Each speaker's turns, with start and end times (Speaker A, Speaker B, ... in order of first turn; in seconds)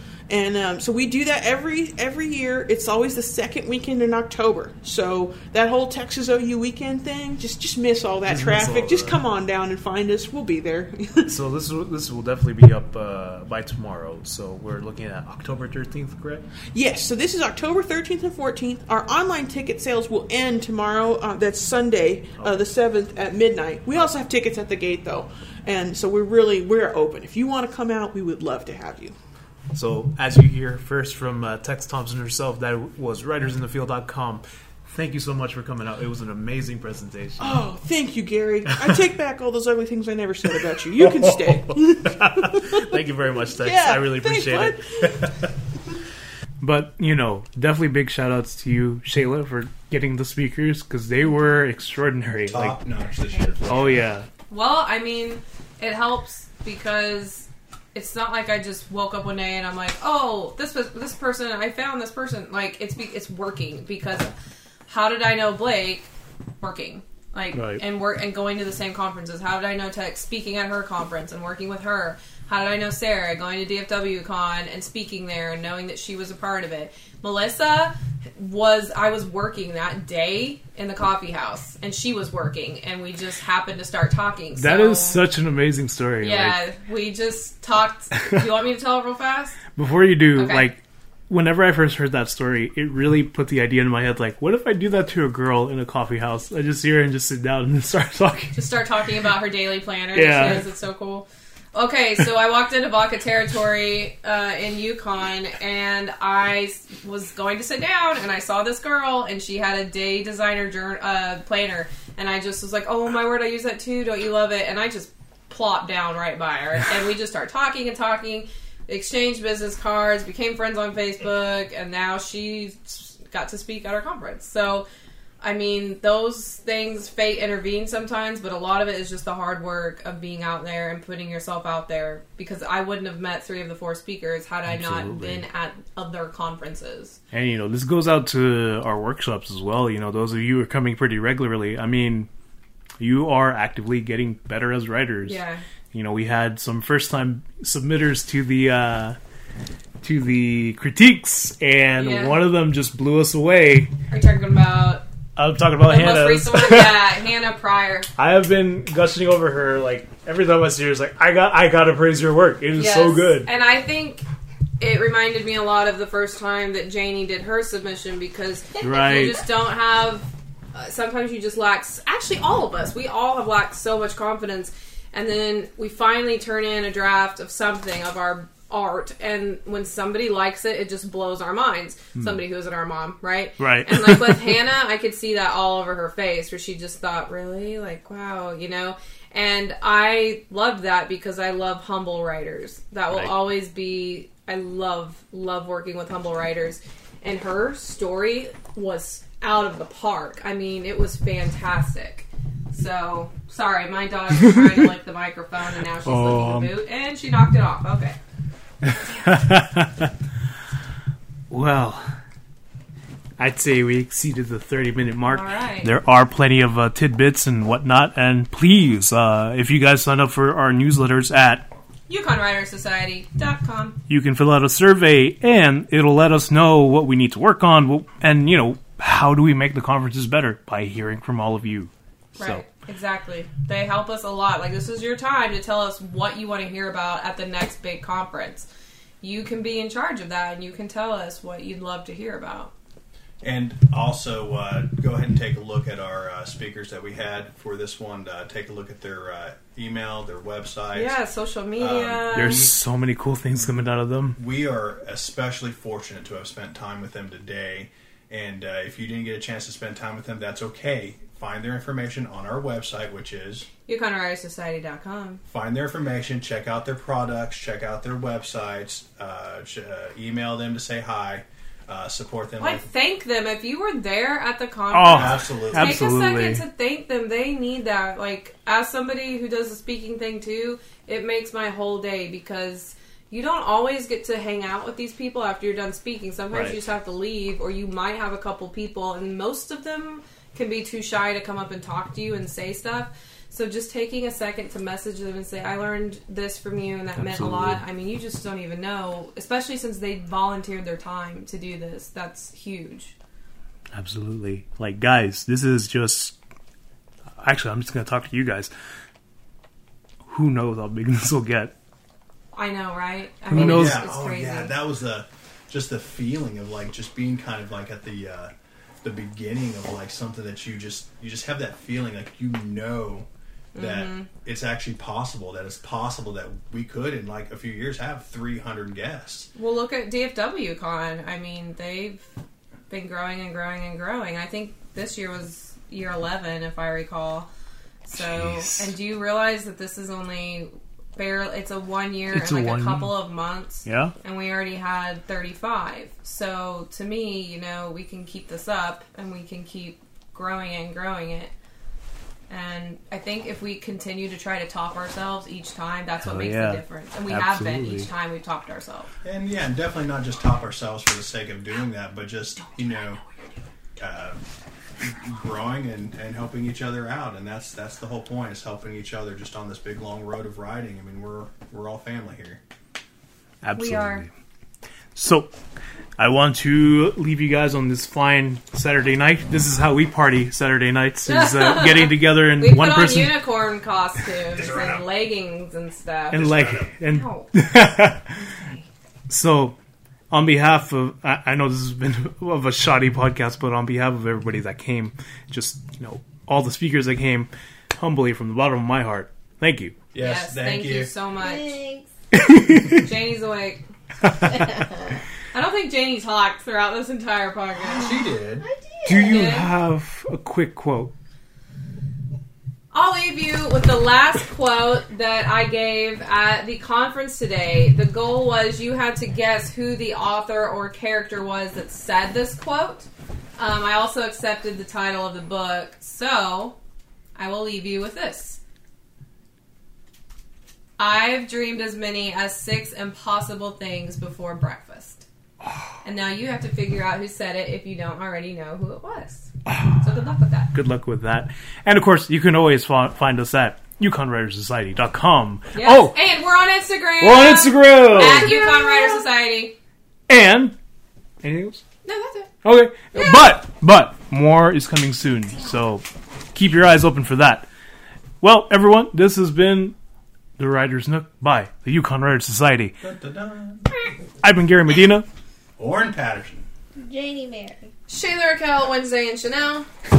Speaker A: 0.3-11.4, 16.7-29.1, 37.4-42.9, 43.6-45.2
Speaker B: 8.3-9.2, 11.3-16.4, 22.4-22.7, 29.7-37.6, 41.0-45.3, 46.6-52.8, 53.7-54.3, 67.5-67.8, 84.5-86.6, 89.8-98.5, 100.1-100.7, 134.7-135.4, 137.3-142.3, 143.0-145.4, 145.9-149.2, 150.0-153.9, 155.3-157.0, 158.2-163.5, 168.8-169.4, 182.2-182.4, 183.6-184.4, 193.1-193.4, 206.0-206.7, 208.8-210.1, 211.5-212.1, 213.4-221.7, 224.1-232.6, 252.3-254.4, 274.9-276.6, 286.5-286.8, 297.2-297.8, 303.9-306.4, 307.4-308.7, 310.3-311.7, 313.5-314.1, 338.2-338.9, 342.3-343.2, 343.9-344.1, 356.2-358.1, 373.6-374.3, 375.1-375.5, 376.2-383.4, 386.3-388.3, 389.3-389.8, 390.3-399.9, 402.3-403.1, 404.2-404.7, 409.1-411.1, 439.7-440.0, 440.7-446.1, 447.2-448.5, 450.3-450.8, 451.4-451.8, 452.6-457.7, 458.4-459.9, 460.6-462.9, 464.4-465.2
Speaker C: 52.5-54.1, 243.4-251.2, 251.8-252.7, 254.3-263.7, 265.4-272.9, 275.0-276.1, 313.5-329.5, 359.2-363.2, 364.0-364.4, 365.0-372.6, 384.5-385.1, 386.4-386.9, 400.1-401.1, 407.9-408.7, 463.0-463.9, 465.8-466.7
Speaker D: 54.5-64.3, 64.9-66.1, 66.6-85.2, 86.2-89.7, 90.3-90.7, 98.5-124.9, 125.4-137.2, 145.2-145.6, 152.0-152.4, 154.1-155.0, 155.8-158.1, 162.7-164.2, 164.8-208.2, 215.3-216.0, 222.1-224.0, 232.4-238.7, 239.2-242.7, 250.9-252.7, 263.9-265.4, 272.6-303.1, 312.5-314.8, 323.7-324.3, 329.6-332.2, 332.9-337.5, 338.0-351.5, 352.5-359.1, 373.8-374.3, 381.3-386.5, 387.1-387.5, 388.4-388.8, 400.2-401.8, 403.0-403.8, 405.5-408.1, 409.1-409.7, 412.9-426.8, 427.4-428.6, 431.0-435.2, 436.0-440.7, 445.7-449.8, 452.0-452.5, 453.1-453.4, 468.1-469.9
Speaker E: 401.4-402.1, 404.4-405.2, 408.5-409.6, 448.4-449.2, 467.0-467.9